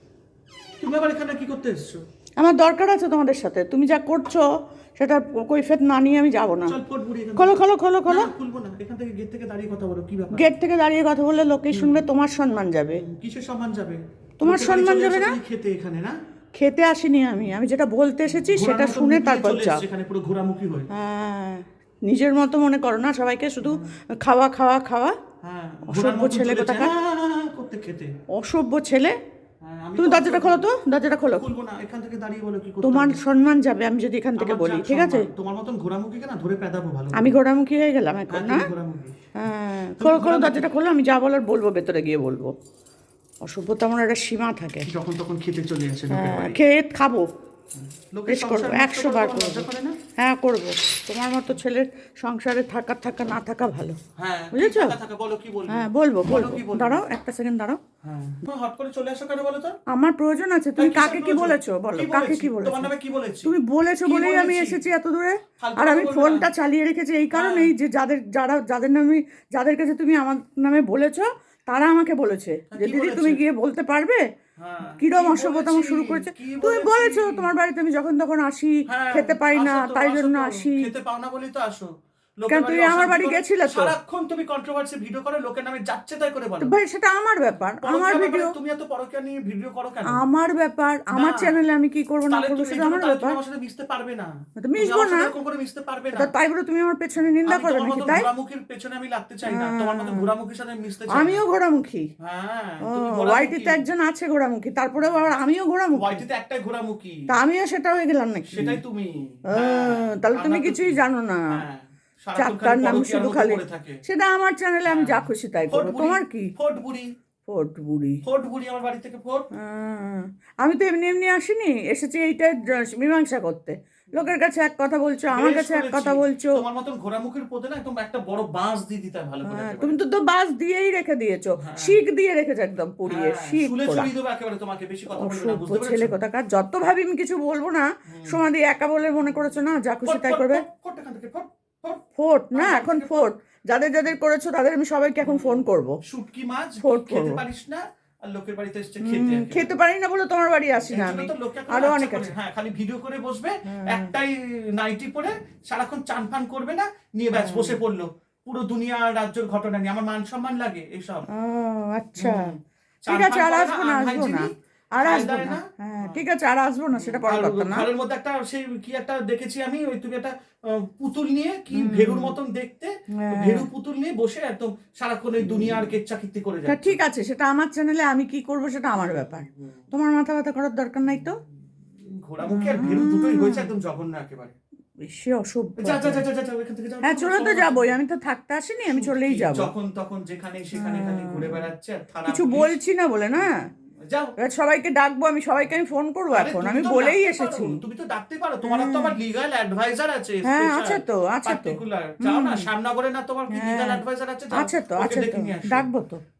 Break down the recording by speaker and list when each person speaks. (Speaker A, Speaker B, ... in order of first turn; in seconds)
Speaker A: 0.8-2.0, 6.7-10.5, 11.7-12.0, 12.9-16.1, 18.4-20.9, 23.6-23.9, 25.4-28.1, 29.6-30.7, 31.2-33.2, 34.4-37.4, 38.3-39.2, 40.0-40.7, 44.9-46.6, 47.7-50.0, 54.2-57.0, 58.0-59.8, 60.8-64.8, 65.6-66.5, 67.3-67.7, 72.7-73.4, 74.6-77.5, 78.9-86.7, 87.8-90.2, 91.1-91.6, 92.3-96.3, 97.4-101.4, 102.2-103.8, 105.0-105.3, 105.9-107.2, 108.5-111.0, 111.5-114.0, 114.8-117.1, 118.2-119.5, 125.3-130.0, 131.6-132.0, 133.0-136.2, 138.1-138.4, 140.0-142.0, 142.5-143.3, 145.2-149.8, 150.8-161.2, 162.2-166.2, 166.9-177.0, 179.1-179.9, 182.1-184.5, 185.8-188.0, 188.8-192.8, 194.1-194.3, 196.3-205.9
Speaker B: 2.4-4.4, 5.0-6.8, 7.3-8.3, 10.3-13.0, 14.4-15.4, 16.6-19.8, 20.9-25.1, 25.9-26.9, 28.3-29.1, 30.0-31.5, 32.8-35.3, 37.1-38.7, 39.4-42.5, 43.4-44.9, 46.1-47.3, 48.3-49.7, 50.2-54.0, 54.5-55.0, 55.7-57.8, 59.9-62.9, 63.4-74.2, 75.0-80.9, 82.5-84.0, 86.6-88.5, 90.1-93.4, 94.6-95.3, 96.1-98.3, 99.5-100.3, 101.1-102.1, 102.8-106.2, 107.3-108.8, 109.5-111.6, 112.4-116.5, 117.5-118.2, 119.5-126.6, 129.4-134.1, 135.1-140.6, 142.2-146.0, 146.8-147.4, 149.0-152.3, 153.7-154.1, 157.3-157.8, 161.3-162.5, 163.1-167.9, 171.7-172.3, 173.1-173.7, 175.4-175.9, 176.7-181.4, 182.4-183.7, 185.0-186.2, 187.0-189.7, 190.7-191.6, 192.2-193.6, 194.4-197.8, 198.6-199.1, 200.4-202.7, 203.5-206.2